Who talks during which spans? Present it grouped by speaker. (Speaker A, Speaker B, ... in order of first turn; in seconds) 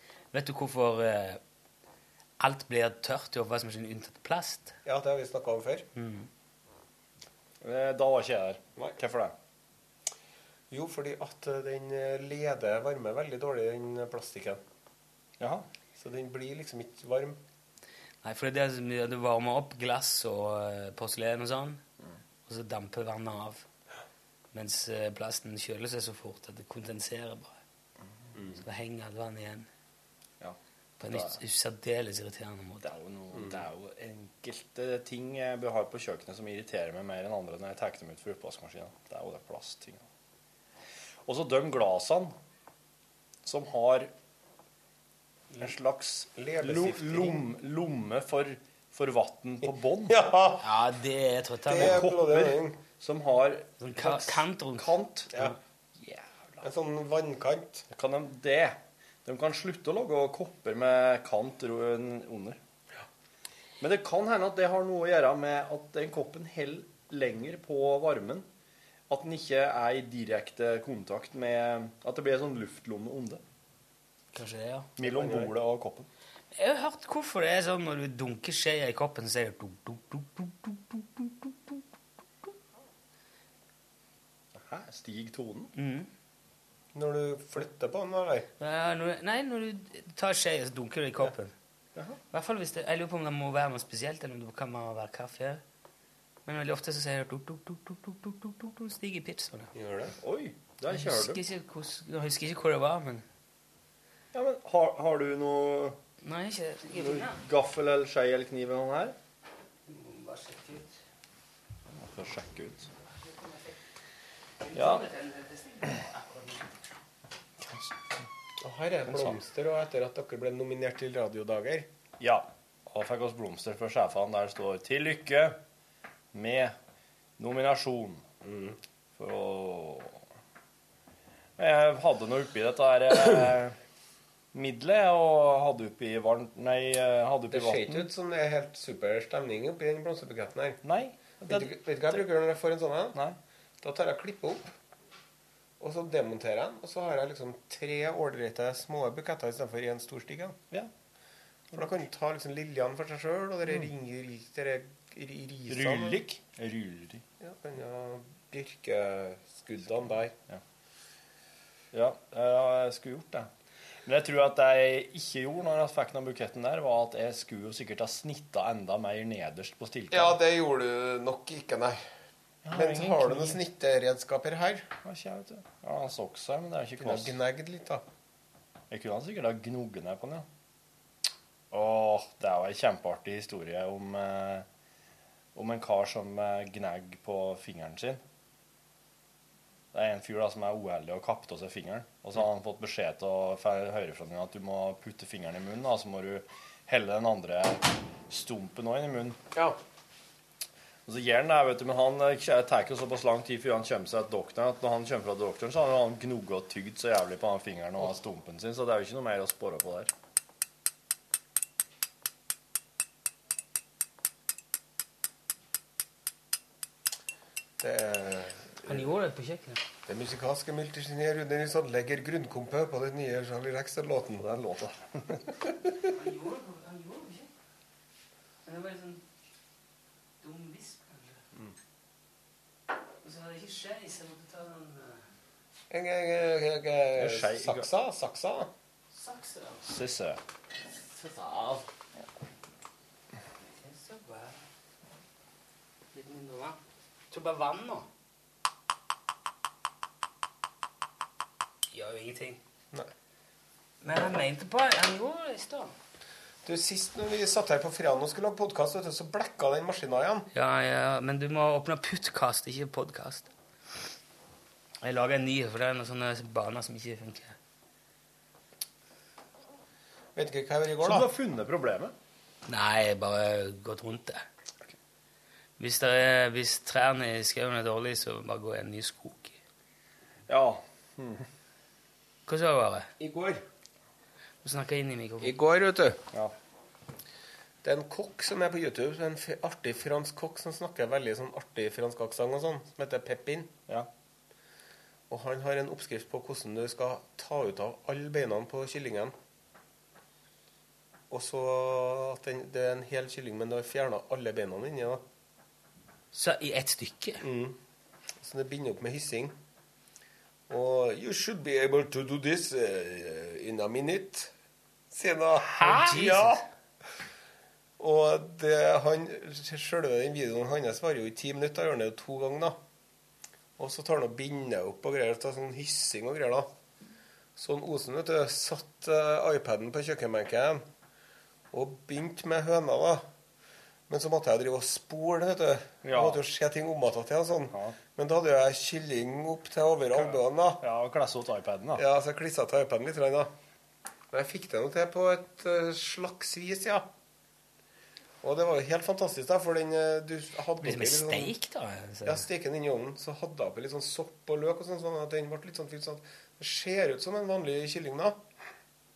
Speaker A: 0.3-1.4, 2.4-4.7, 6.0-6.3, 18.2-21.8, 22.5-23.6, 24.5-27.6, 28.6-29.7, 31.0-32.8, 50.6-52.0, 53.8-55.5, 74.3-74.9, 76.5-81.8, 85.8-86.1, 88.6-91.5, 92.3-95.6, 96.5-99.7, 100.9-103.2, 106.2-107.4, 109.9-111.0, 113.2-113.7, 114.6-116.7, 218.8-219.8, 226.1-227.5, 228.6-229.2, 230.4-231.4, 233.2-235.2, 239.1-239.8, 243.8-244.6, 246.1-246.8, 247.3-248.1, 251.9-252.6, 254.0-255.9, 260.5-263.5, 265.0-267.6, 272.7-274.4, 275.8-279.6, 282.5-283.1, 284.6-285.5, 306.3-307.4, 315.7-316.6, 350.8-352.4
Speaker B: 4.8-5.8, 10.7-14.6, 16.0-17.4, 46.4-47.4, 50.1-50.7, 51.7-52.8, 56.6-57.9, 75.0-75.5, 86.9-88.5, 99.7-100.1, 118.6-121.9, 128.4-128.8, 137.5-140.8, 141.5-143.2, 143.8-144.7, 145.8-150.6, 151.7-156.2, 157.4-160.3, 170.1-172.0, 172.7-174.9, 177.0-178.0, 217.8-219.0, 220.1-224.4, 235.9-238.7, 256.6-260.5, 270.4-271.3, 283.2-283.6, 285.4-286.2, 287.8-293.7, 295.3-299.3, 301.3-305.2, 307.4-307.8, 308.4-309.5, 310.7-314.5, 315.1-316.6, 318.0-322.8, 323.8-326.7, 327.6-330.8, 331.7-333.2, 334.1-340.8, 341.9-343.5, 344.3-347.1, 348.4-351.5, 352.2-358.4
Speaker C: 7.6-9.3, 15.4-15.7, 30.4-31.4, 32.8-40.0, 41.2-42.3, 43.4-44.1, 45.6-50.2, 51.7-56.6, 57.9-62.6, 63.8-68.5, 69.1-73.4, 75.0-76.1, 84.5-85.7, 100.2-101.4, 104.3-106.0, 106.9-109.1, 111.9-112.9, 114.7-115.0, 117.6-118.0, 119.0-119.4, 122.2-125.6, 126.3-126.7, 127.4-128.2, 129.2-130.2, 131.6-133.8, 134.5-138.1, 140.8-142.3, 155.7-157.2, 161.9-163.5, 164.0-170.4, 172.6-173.6, 175.0-177.4, 178.9-180.4, 181.7-184.7, 185.5-188.2, 189.9-199.4, 201.1-210.1, 224.4-225.5, 237.1-237.9, 239.8-240.4, 271.0-272.1, 280.5-281.4, 336.0-336.4, 337.7-338.0, 340.1-342.0